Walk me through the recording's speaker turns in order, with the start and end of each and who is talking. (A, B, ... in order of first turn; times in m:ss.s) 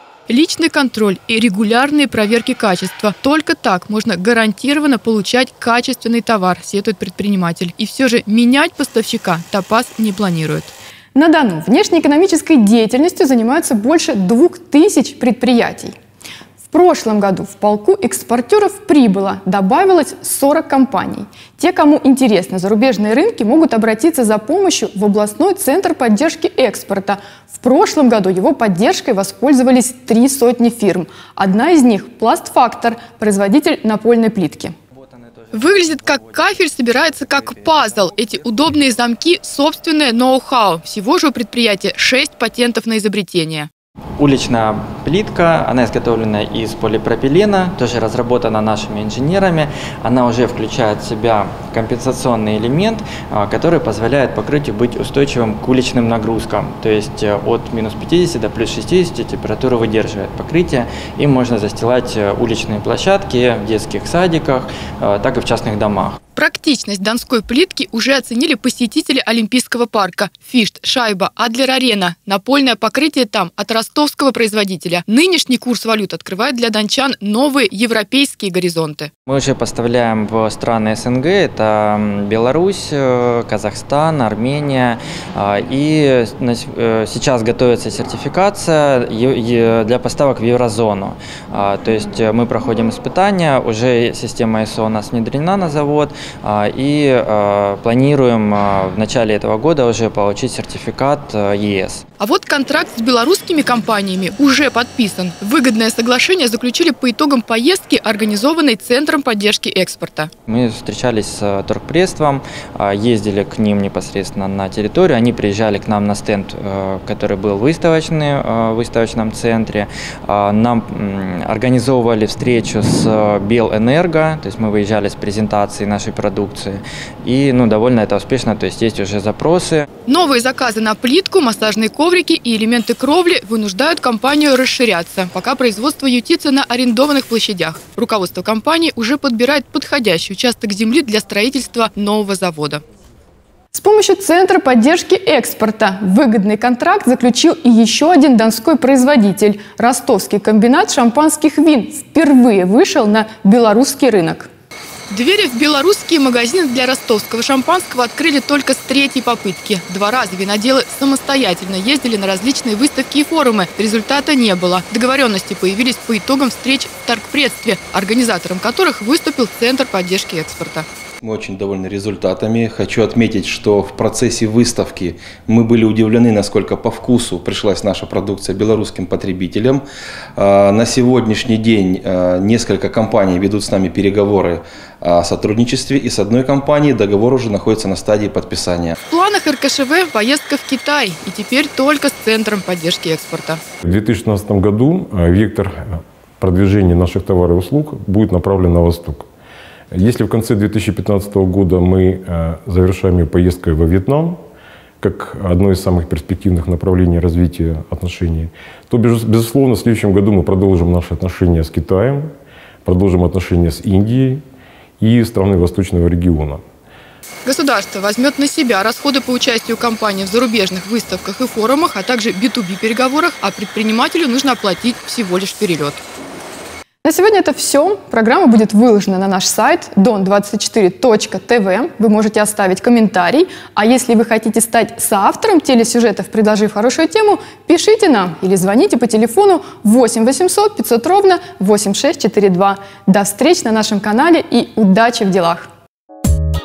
0:00.3-0:15.9 A
0:16.7-0:34.7 A
0:35.0-0:36.3 B
0:35.5-0:43.7 A
0:44.2-1:06.2 B
1:06.3-1:19.1 A
1:19.3-1:42.0 B
1:42.2-1:50.3 A
1:50.5-2:09.8 B
2:10.0-2:22.8 A
2:23.7-2:34.5 A
2:35.1-2:50.8 A
2:51.2-2:59.8 C
3:00.4-3:08.9 C
3:09.1-3:13.6 A
3:13.8-3:19.2 D
3:19.9-3:24.4 D
3:25.0-3:32.3 D
3:32.8-3:34.4 D
3:35.0-3:36.6 D
3:37.4-3:46.0 A
3:47.0-4:05.7 A